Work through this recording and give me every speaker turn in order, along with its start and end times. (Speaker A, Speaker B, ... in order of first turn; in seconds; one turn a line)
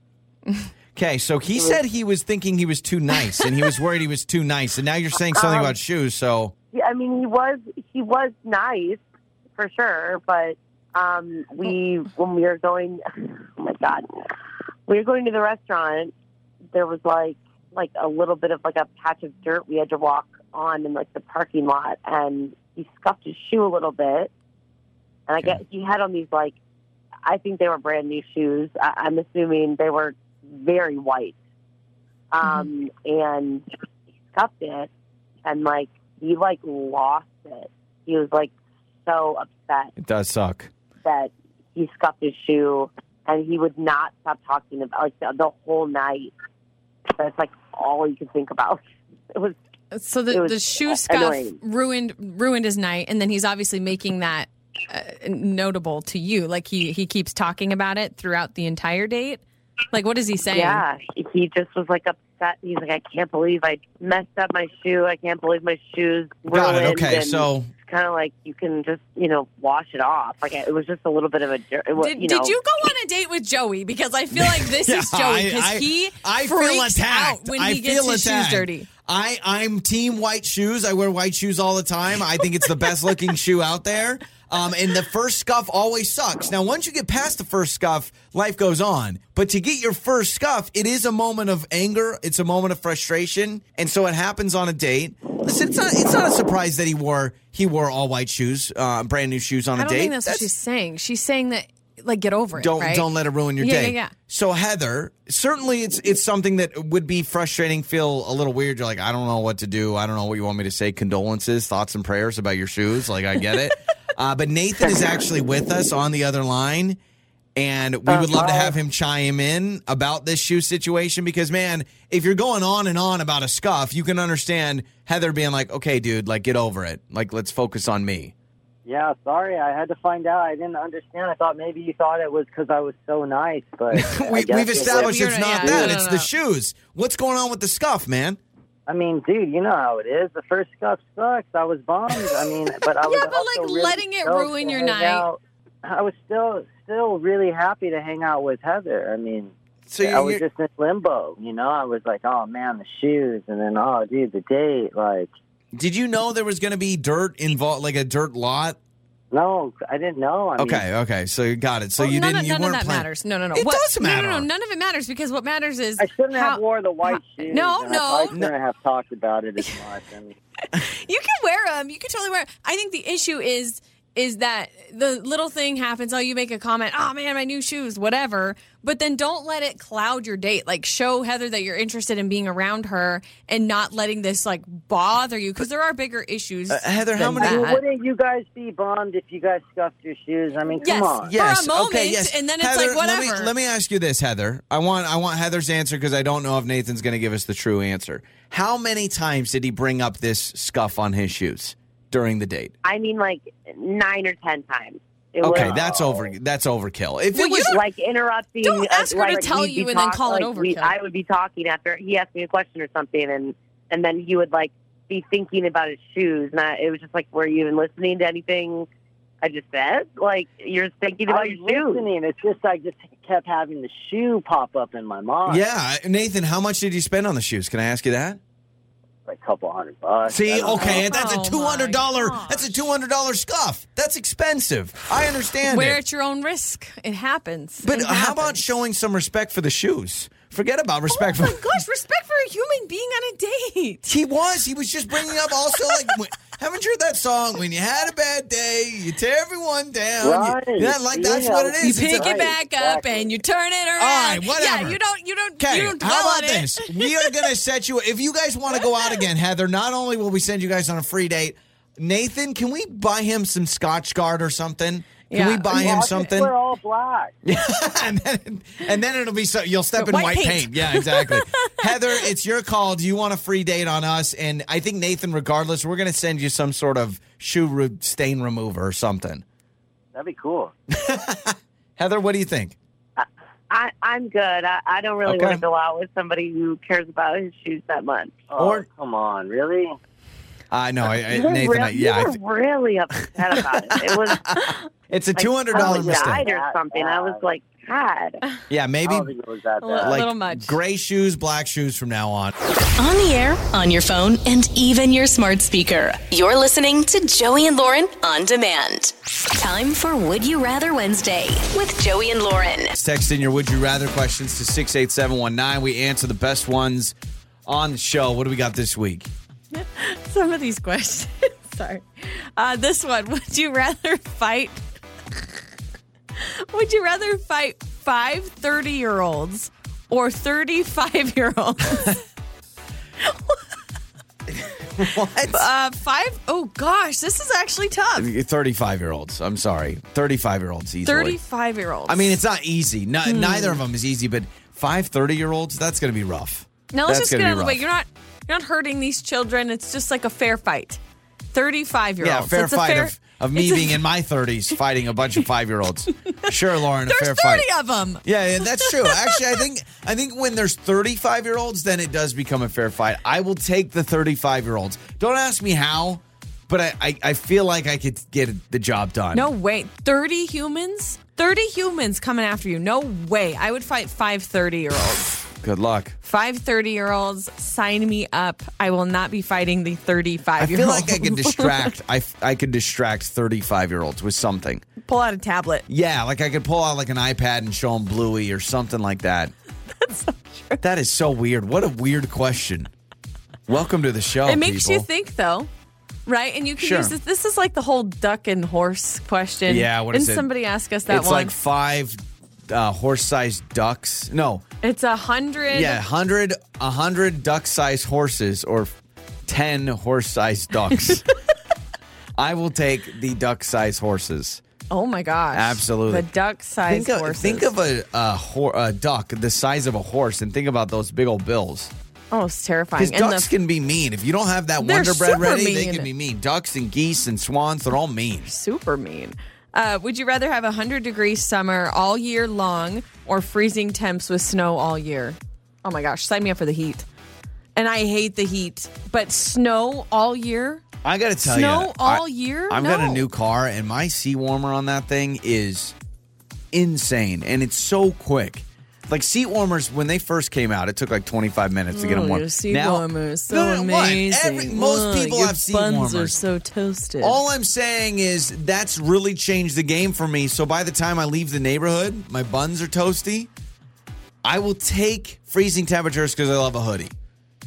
Speaker A: 0.9-6.5
Speaker B: 5.3-5.7
Speaker B: 6.7-9.0
Speaker B: 9.6-14.1
Speaker B: 14.9-16.1
Speaker B: 16.7-24.3
Speaker B: 25.3-26.6
Speaker B: 27.2-31.4
Speaker B: 32.3-33.6
Speaker C: 32.4-32.7
Speaker B: 34.3-34.9
Speaker B: 35.4-38.5
Speaker B: 39.0-39.9
Speaker A: 40.0-40.7
Speaker B: 41.0-46.3
Speaker B: 47.2-48.8
Speaker C: 49.9-59.4
Speaker B: 50.3-51.6
Speaker C: 59.9-60.8
Speaker B: 60.5-72.5
Speaker A: 66.5-67.7
Speaker C: 72.0-78.9
Speaker A: 74.3-100.5
Speaker C: 99.8-104.1
Speaker A: 102.5-117.0
Speaker A: 117.5-128.3
Speaker D: 118.1-118.7
Speaker D: 128.8-136.0
Speaker A: 133.9-138.4
Speaker C: 134.7-136.3
Speaker D: 138.9-155.3
Speaker C: 143.0-145.2
Speaker A: 149.9-150.4
Speaker A: 155.7-158.8
Speaker D: 159.3-160.8
Speaker A: 160.6-164.5
Speaker C: 162.0-168.4
Speaker D: 166.0-170.3
Speaker C: 170.7-187.8
Speaker A: 186.7-187.7
Speaker D: 187.2-191.3
Speaker C: 190.8-193.5
Speaker A: 191.3-202.7
Speaker B: 202.8-206.0
Speaker A: 205.4-207.8
Speaker D: 205.5-206.0
Speaker C: 207.3-207.8
Speaker B: 207.5-218.9
Speaker C: 208.6-210.9
Speaker B: 219.4-222.1
Speaker D: 221.3-225.6
Speaker A: 225.5-228.4
Speaker D: 229.2-231.1
Speaker A: 230.3-236.0
Speaker C: 230.7-232.8
Speaker C: 235.7-238.6
Speaker A: 237.8-241.8
Speaker C: 241.1-244.1
Speaker A: 244.1-252.4
Speaker C: 245.7-246.1
Speaker D: 250.2-253.4
Speaker C: 251.8-257.4
Speaker A: 254.0-255.0
Speaker A: 255.6-266.5
Speaker C: 265.3-266.3
Speaker D: 265.7-267.3
Speaker A: 267.4-279.4
Speaker C: 270.0-272.3
Speaker D: 280.1-280.7
Speaker A: 280.9-282.8
Speaker B: 283.2-288.4
Speaker A: 285.2-285.6
Speaker D: 288.5-289.9
Speaker A: 288.6-288.8
Speaker A: 290.7-292.4
Speaker B: 291.3-294.6
Speaker A: 293.4-296.4
Speaker B: 295.4-298.4
Speaker D: 295.7-297.4
Speaker A: 298.7-299.3
Speaker D: 299.0-300.2
Speaker C: 299.8-300.8
Speaker A: 300.0-302.5
Speaker E: 303.0-312.9
Speaker A: 313.0-317.1
Speaker A: 317.6-319.3
Speaker C: 319.7-324.8
Speaker C: 326.4-332.2
Speaker C: 333.2-333.6
Speaker A: 334.9-335.7
Speaker C: 335.5-338.3
Speaker A: 338.2-341.4
Speaker C: 341.0-342.3
Speaker A: 342.1-347.8
Speaker C: 343.2-343.8
Speaker C: 346.9-351.0
Speaker C: 351.5-354.0
Speaker A: 352.2-357.7
Speaker C: 356.3-359.6
Speaker A: 358.2-369.5
Speaker C: 369.3-375.4
Speaker A: 375.5-376.1
Speaker C: 376.2-381.9
Speaker A: 380.6-384.8
Speaker C: 385.0-385.8
Speaker A: 385.9-389.5
Speaker C: 390.0-390.8
Speaker A: 390.8-392.9
Speaker A: 393.7-395.1
Speaker C: 394.4-395.7
Speaker C: 396.2-401.5
Speaker A: 396.8-397.1
Speaker A: 399.7-400.5
Speaker A: 401.1-404.6
Speaker C: 404.8-406.0
Speaker A: 405.7-408.9
Speaker A: 409.4-411.3
Speaker A: 412.4-414.6
Speaker C: 414.9-417.7
Speaker A: 415.5-416.3
Speaker A: 416.9-421.9
Speaker C: 422.3-423.5
Speaker A: 423.0-428.5
Speaker C: 424.8-426.1
Speaker C: 428.4-437.1
Speaker C: 437.8-440.8
Speaker A: 441.0-445.9
Speaker C: 441.4-443.3
Speaker A: 446.7-456.4
Speaker C: 451.9-457.4
Speaker A: 457.2-463.5
Speaker A: 464.4-467.1